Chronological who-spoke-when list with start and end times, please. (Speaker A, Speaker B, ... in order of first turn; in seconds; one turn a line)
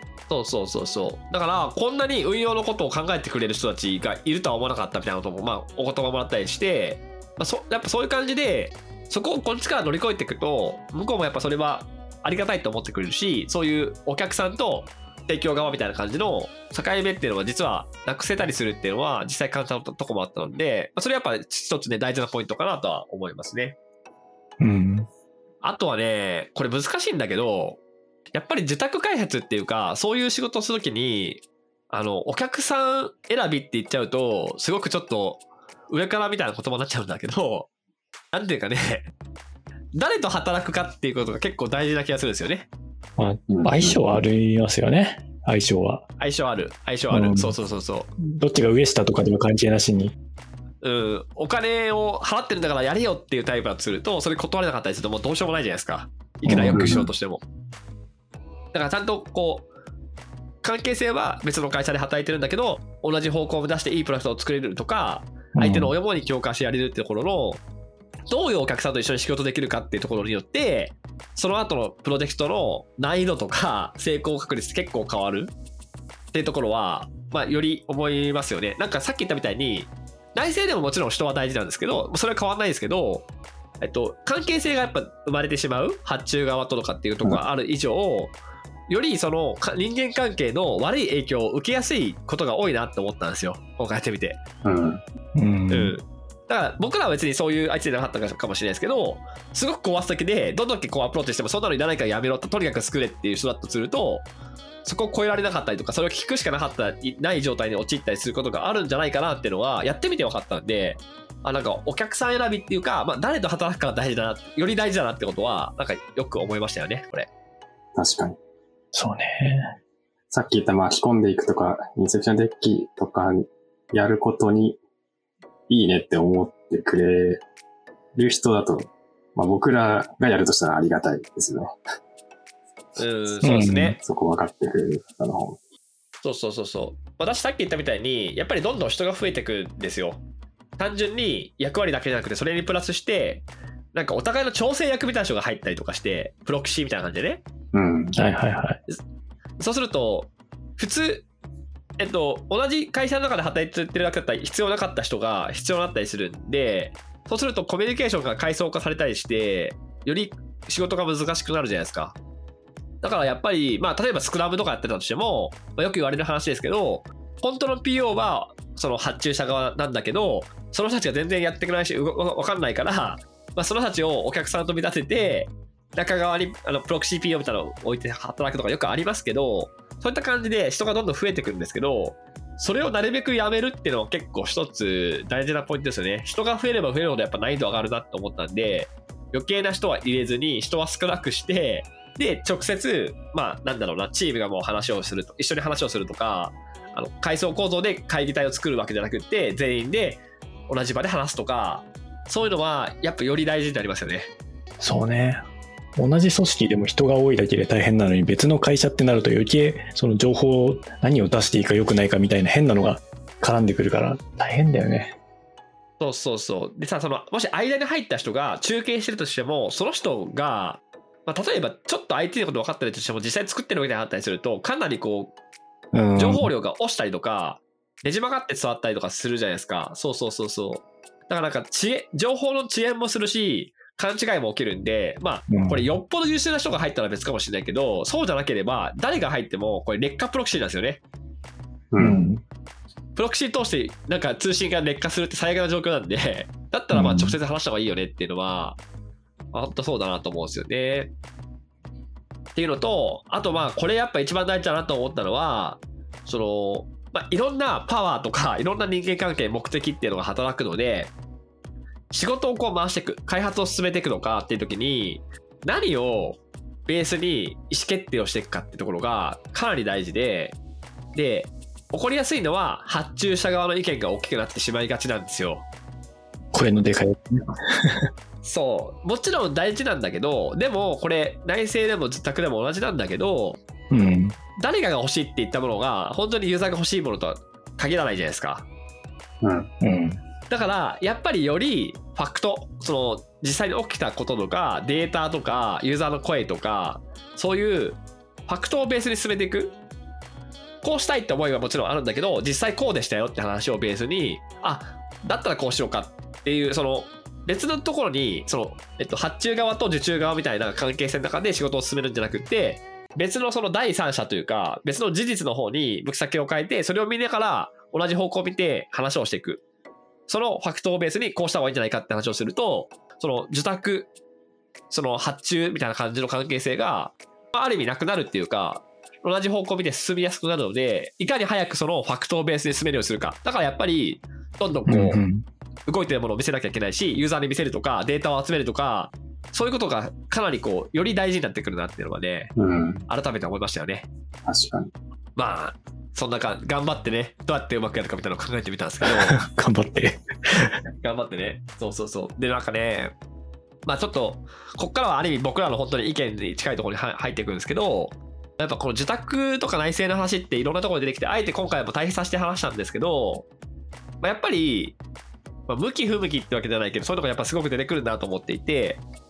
Speaker A: 0.3-23.8
Speaker B: 24.6-25.1
Speaker A: 25.6-27.8
Speaker A: 28.3-37.7
Speaker A: 38.3-39.1
Speaker A: 39.9-42.7
Speaker B: 43.2-46.0
Speaker C: 43.5-44.0
Speaker A: 46.2-48.1
Speaker B: 47.1-47.5
Speaker B: 48.2-50.1
Speaker A: 50.8-57.4
Speaker B: 56.5-57.0
Speaker C: 56.7-57.0
Speaker A: 58.7-59.7
Speaker A: 60.6-67.6
Speaker B: 65.5-65.9
Speaker A: 68.3-75.5
Speaker A: 76.3-83.3
Speaker A: 83.8-88.3
Speaker A: 88.9-94.4
Speaker C: 94.6-95.0
Speaker B: 95.3-96.0
Speaker A: 95.7-104.2
Speaker A: 104.8-117.3
Speaker C: 117.9-118.4
Speaker B: 118.9-119.7
Speaker C: 120.3-124.8
Speaker C: 125.7-127.4
Speaker C: 128.1-131.8
Speaker A: 133.0-134.0
Speaker B: 133.4-134.0
Speaker C: 134.0-135.6
Speaker A: 136.2-140.2
Speaker A: 140.8-147.4
Speaker C: 147.7-148.2
Speaker B: 148.1-148.8
Speaker A: 149.6-151.2
Speaker A: 152.0-162.2
Speaker A: 163.0-204.3
Speaker B: 204.8-205.4
Speaker B: 205.9-215.2
Speaker A: 216.0-225.3
Speaker B: 225.9-226.5
Speaker A: 226.2-241.0
Speaker B: 235.5-235.9
Speaker C: 241.9-242.2
Speaker B: 242.0-242.4
Speaker A: 243.2-248.8
Speaker B: 246.9-247.3
Speaker A: 249.5-251.1
Speaker A: 252.5-261.1
Speaker A: 262.1-270.6
Speaker A: 271.1-275.6
Speaker B: 276.5-278.1
Speaker A: 278.4-283.6
Speaker B: 283.9-284.4
Speaker A: 284.6-288.7
Speaker C: 289.4-289.7
Speaker B: 289.8-290.2
Speaker A: 290.5-299.8
Speaker A: 300.8-319.6
Speaker A: 320.3-324.1
Speaker A: 324.9-335.2
Speaker B: 334.9-335.4
Speaker A: 335.9-342.5
Speaker C: 342.6-343.1
Speaker A: 343.1-344.1
Speaker C: 344.4-344.9
Speaker A: 345.4-349.4
Speaker B: 349.0-350.8
Speaker A: 351.0-353.1
Speaker A: 353.9-363.5
Speaker A: 364.2-364.9
Speaker A: 365.7-369.0